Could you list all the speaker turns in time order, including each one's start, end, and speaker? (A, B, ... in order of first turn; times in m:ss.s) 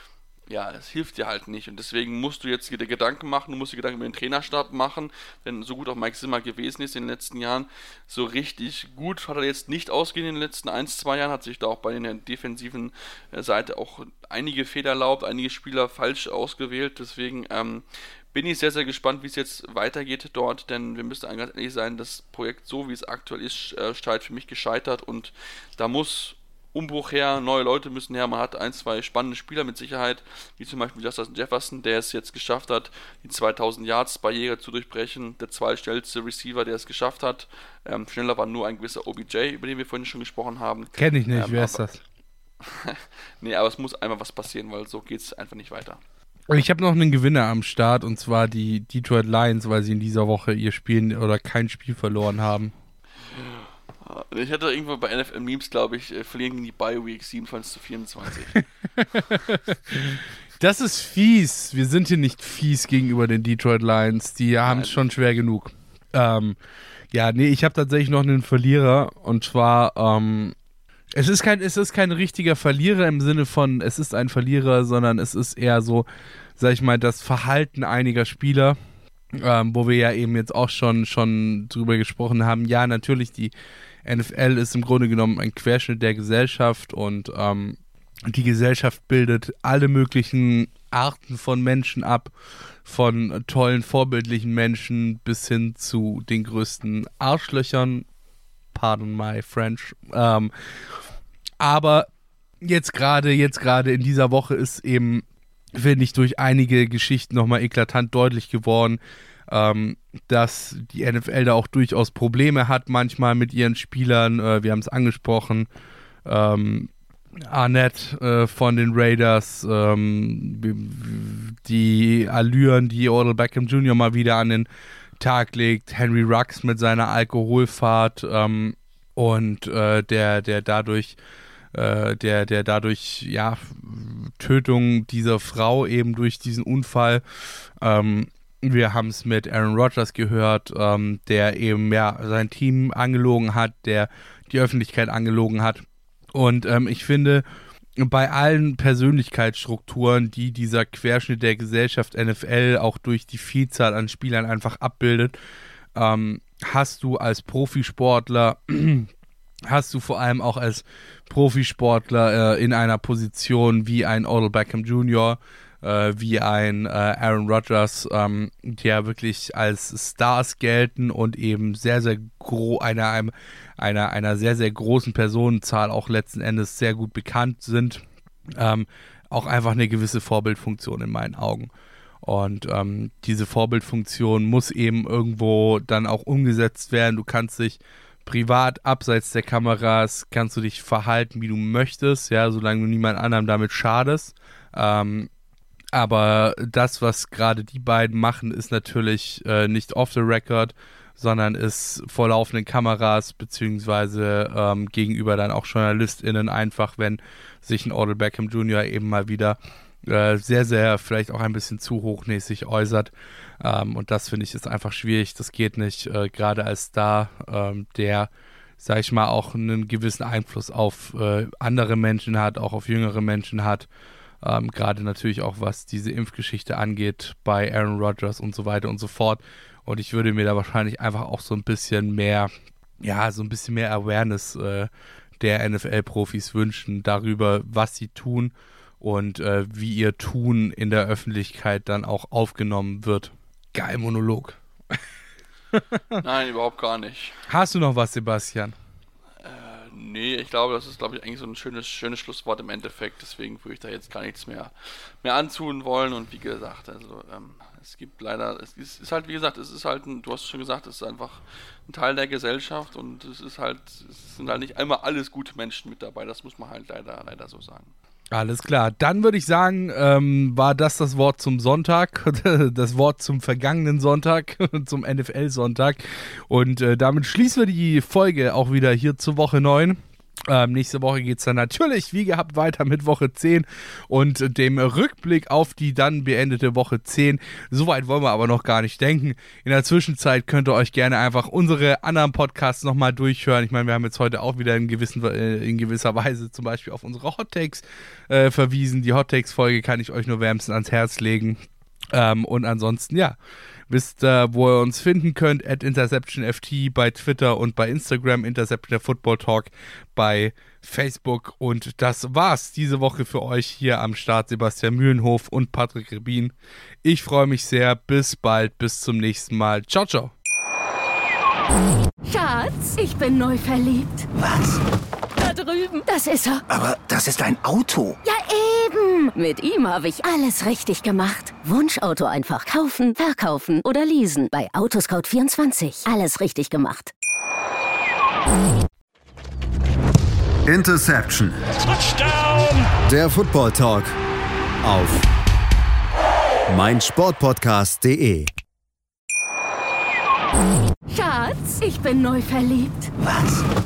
0:00.5-0:41.8 A
0:41.0-0:42.0 B
0:42.6-0:46.0 A
0:46.5-0:52.7 B
0:53.4-0:58.6 A
0:59.0-1:06.6 B
1:04.7-1:05.1 A
1:07.1-1:10.6 B
1:11.2-1:16.1 B
1:16.6-1:18.8 B
1:19.4-1:23.5 B
1:24.0-1:32.3 B
1:32.8-1:38.1 B
1:38.7-1:40.5 B
1:41.6-1:42.1 B
1:42.6-1:55.7 B
1:56.2-2:04.7 B
2:05.2-2:11.2 B
2:11.7-2:17.2 B
2:17.8-2:27.4 B
2:28.0-2:35.4 B
2:36.0-2:39.1 B
2:39.7-2:58.0 B
2:58.6-3:01.7 B
3:02.2-3:15.3 B
3:15.9-3:43.9 B
3:44.4-4:05.0 B
4:05.7-4:06.2 B
4:06.2-4:07.4 A
4:07.5-4:08.8 B
4:09.4-4:27.9 A
4:28.3-5:01.6 B
5:02.1-5:03.4 B
5:03.9-5:20.3 B
5:22.2-5:24.3 C
5:24.4-5:24.8 D
5:25.4-5:26.6 C
5:26.7-5:28.2 D
5:28.2-5:37.1 C
5:40.6-5:44.1 E
5:44.8-5:45.2 E
5:46.7-5:48.5 E
5:51.1-5:53.1 C
5:53.2-5:53.7 D